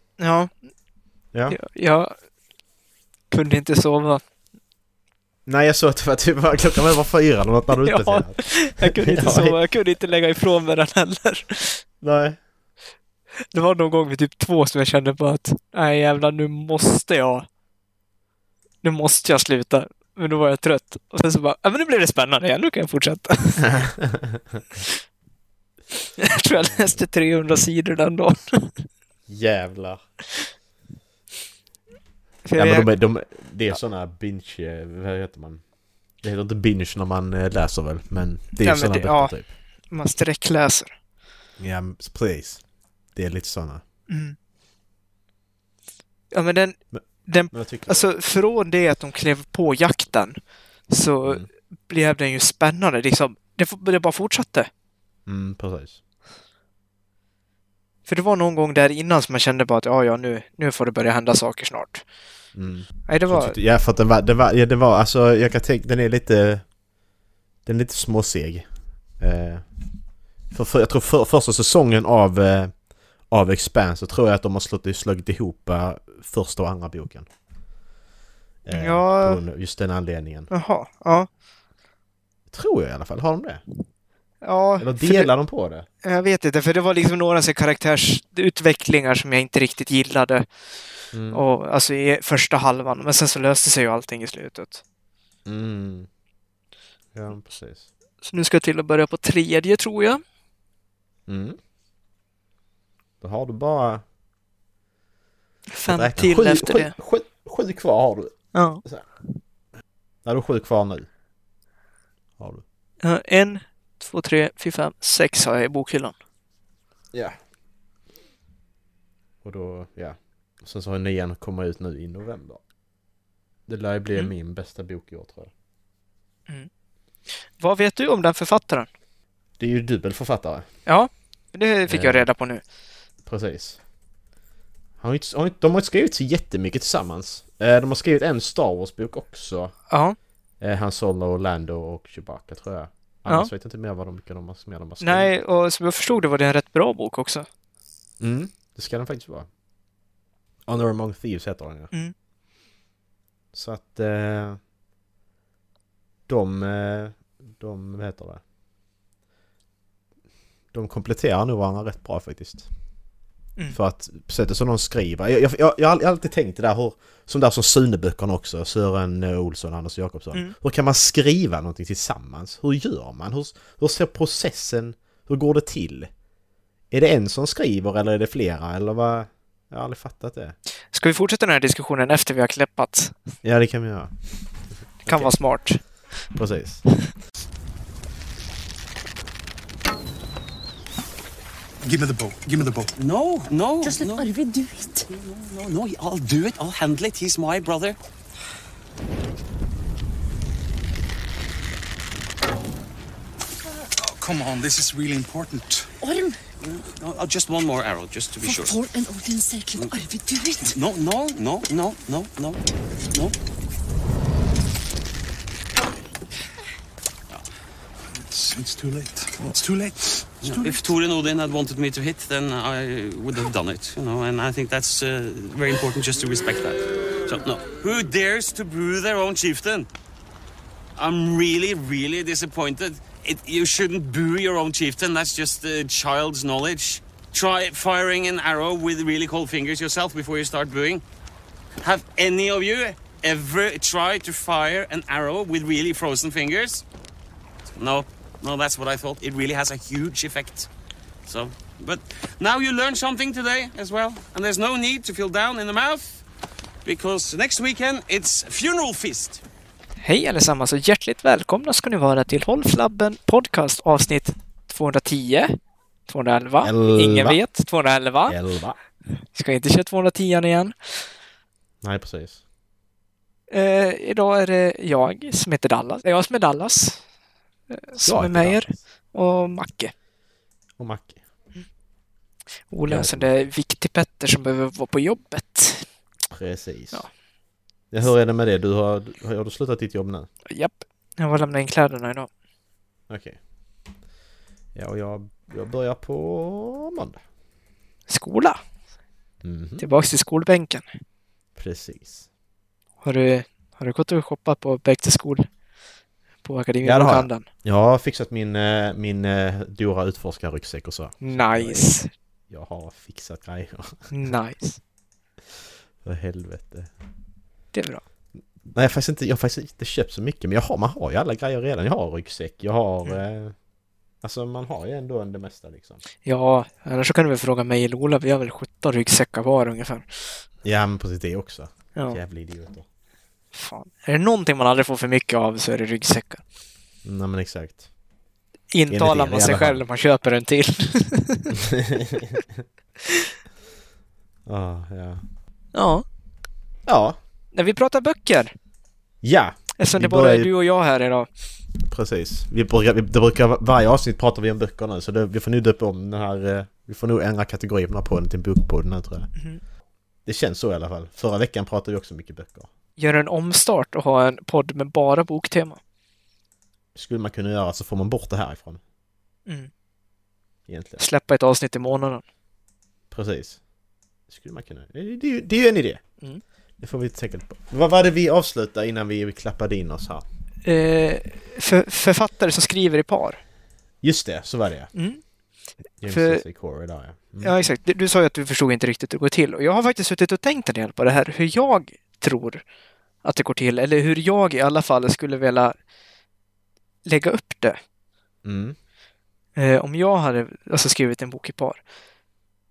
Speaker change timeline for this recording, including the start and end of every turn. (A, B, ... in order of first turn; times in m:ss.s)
0:00.2-0:00.5 A
0:01.3-0:01.6 B
0:01.5-0:02.1 A
0:03.3-0:04.2 A
0:05.4-0:09.6 B
0:07.8-0:11.8 A
0:12.0-0:12.4 B
0:13.5-0:17.4 A
0:18.8-0:23.8 A
0:23.7-0:24.6 B
0:26.2-0:28.8 A
0:29.3-0:30.0 B
0:32.4-0:32.9 A
0:32.6-0:35.6 B
0:36.2-0:39.5 B
0:38.6-0:39.3 A
0:39.9-0:40.9 A
0:41.6-0:42.6 B
0:43.1-0:43.8 B
0:44.1-0:44.4 A
0:46.3-0:50.4 A
0:46.9-0:48.1 B
0:50.9-0:54.7 A
0:55.2-0:56.0 B
0:58.1-1:02.0 A
1:02.5-1:06.7 B
1:03.0-1:03.6 A
1:07.6-1:08.7 B
1:09.2-1:09.6 B
1:10.5-1:12.7 B
1:13.3-1:17.3 B
1:18.6-1:20.5 B
1:18.7-1:19.4 A
1:20.5-1:21.3 A
1:22.5-1:23.6 B
1:24.4-1:25.3 A
1:24.8-1:25.9 B
1:26.0-1:30.5 A
1:31.1-1:31.4 B
1:31.3-1:34.8 A
1:35.4-1:36.1 B
1:37.1-1:37.9 B
1:38.2-1:40.2 A
1:41.3-1:41.6 B
1:43.2-1:44.0 B
1:45.7-1:46.9 A
1:45.9-1:49.0 B
1:48.5-1:48.8 A
1:50.2-1:51.1 B
1:53.0-1:56.1 A
1:57.1-1:57.4 B
1:59.4-2:02.6 B
2:03.7-2:05.5 B
2:07.5-2:08.9 A
2:09.6-2:10.7 B
2:10.8-2:12.6 A
2:11.9-2:12.3 B
2:13.2-2:13.8 B
2:15.0-2:19.7 B
2:19.9-2:20.2 A
2:20.6-2:25.3 B
2:25.0-2:27.5 A
2:28.2-2:29.5 B
2:30.6-2:31.9 B
2:33.5-2:34.6 B
2:36.3-2:38.4 B
2:40.7-2:42.7 B
2:43.7-2:56.1 B
2:56.9-3:00.6 B
3:00.9-3:03.1 A
3:03.4-3:04.1 B
3:05.0-3:05.4 B
3:05.0-3:05.8 A
3:06.3-3:06.8 B
3:11.8-3:12.9 C
3:13.0-3:14.3 D
3:13.8-3:15.1 E
3:15.1-3:18.0 D
3:24.0-3:26.1 C
3:26.0-3:26.4 E
3:26.6-3:28.8 D
3:28.4-3:30.7 E
3:29.8-3:30.0 D
3:30.7-3:32.6 D
3:38.1-3:40.9 C
3:40.4-3:49.9 D
3:51.0-4:01.0 D
4:01.8-4:06.8 D
4:07.8-4:10.7 D
4:11.2-4:16.2 D
4:16.8-4:19.4 D
4:20.0-4:25.6 A
4:26.1-4:28.4 A
4:26.6-4:27.4 B
4:28.3-4:28.8 B
4:29.2-4:31.0 A
4:31.8-4:32.4 B
4:33.5-4:37.0 A
4:37.7-4:39.9 A
4:38.0-4:38.7 B
4:40.8-4:41.2 B
4:42.7-4:45.9 A
4:42.9-4:43.3 B
4:46.3-4:47.0 B
4:47.9-4:50.3 B
4:50.5-4:52.3 A
4:53.1-4:53.4 B
4:54.7-4:57.2 B
4:58.1-4:58.6 A
4:59.4-4:59.8 B
4:59.8-5:00.9 A
5:01.6-5:02.2 B
5:03.0-5:05.5 A
5:06.4-5:07.4 A
5:06.8-5:11.9 B
5:11.2-5:12.1 A
5:12.5-5:14.3 B
5:14.1-5:14.8 A
5:16.0-5:16.9 B
5:17.7-5:18.0 A
5:18.7-5:23.6 B
5:24.2-5:26.0 B
5:26.2-5:30.4 A
5:30.6-5:32.8 B
5:33.5-5:36.4 A
5:37.0-5:37.9 B
5:38.7-5:41.6 A
5:38.9-5:39.8 B
5:41.5-5:42.6 B
5:43.0-5:43.3 A
5:44.5-5:45.2 B
5:45.7-5:46.0 A
5:46.8-5:47.2 B
5:47.5-5:48.5 A
5:49.2-5:50.5 B
5:49.8-5:51.3 A
5:51.8-5:59.3 B
6:00.2-6:02.7 B
6:03.0-6:05.8 A
6:06.9-6:08.8 B
6:10.7-6:11.0 B
6:11.0-6:12.2 A
6:13.1-6:13.6 B
6:14.3-6:16.0 B
6:16.8-6:20.2 B
6:20.6-6:23.4 A
6:24.0-6:24.9 B
6:24.9-6:25.2 A
6:26.0-6:27.5 B
6:26.1-6:26.4 A
6:27.4-6:32.6 A
6:33.2-6:35.8 A
6:37.0-6:37.8 A
6:38.4-6:38.8 B
6:39.6-6:41.8 A